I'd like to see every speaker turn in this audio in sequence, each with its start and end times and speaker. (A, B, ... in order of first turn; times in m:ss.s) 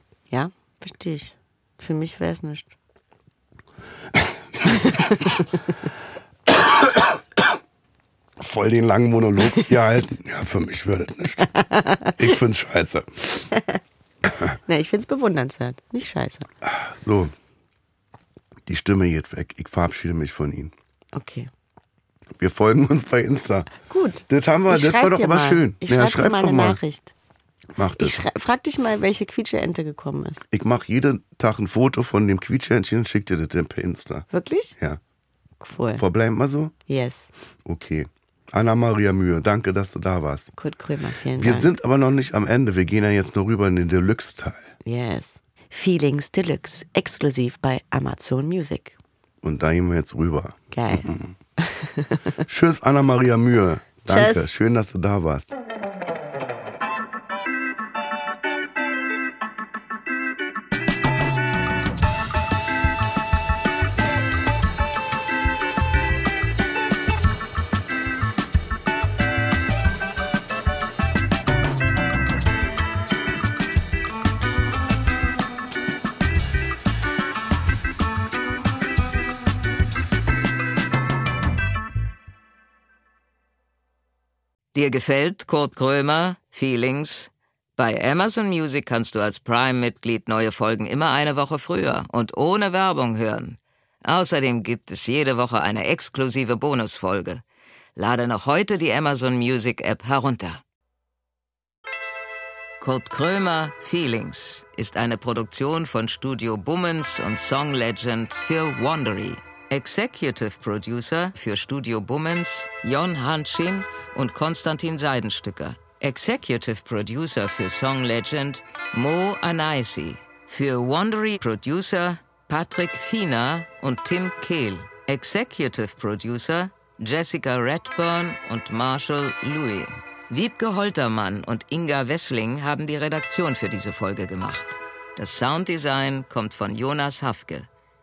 0:00.3-0:02.7 A
0:04.1-0:05.4 B
0:04.7-0:05.4 A
0:06.5-0:07.2 B
0:08.4-0:11.5 B
0:09.4-0:09.7 A
0:11.4-0:12.2 A
0:12.1-0:13.4 B
0:13.5-0:13.8 A
0:14.5-0:16.5 A
0:16.6-0:17.3 B
0:18.7-0:20.7 B
0:21.1-0:21.5 A
0:22.4-0:23.7 B
0:23.8-0:27.1 A
0:24.3-0:26.8 B
0:27.8-0:28.2 B
0:27.9-0:30.4 A
0:30.5-0:34.3 B
0:34.3-0:34.8 A
0:35.6-0:36.0 A
0:36.0-0:36.7 B
0:36.9-0:37.3 A
0:37.6-0:40.5 B
0:40.6-0:41.7 A
0:41.4-0:44.7 B
0:44.8-0:49.0 A
0:49.4-0:51.3 B
0:50.7-0:52.4 A
0:52.5-0:55.5 B
0:54.1-0:54.5 A
1:24.7-1:37.4 C
1:38.0-1:40.6 C
1:42.8-2:17.7 C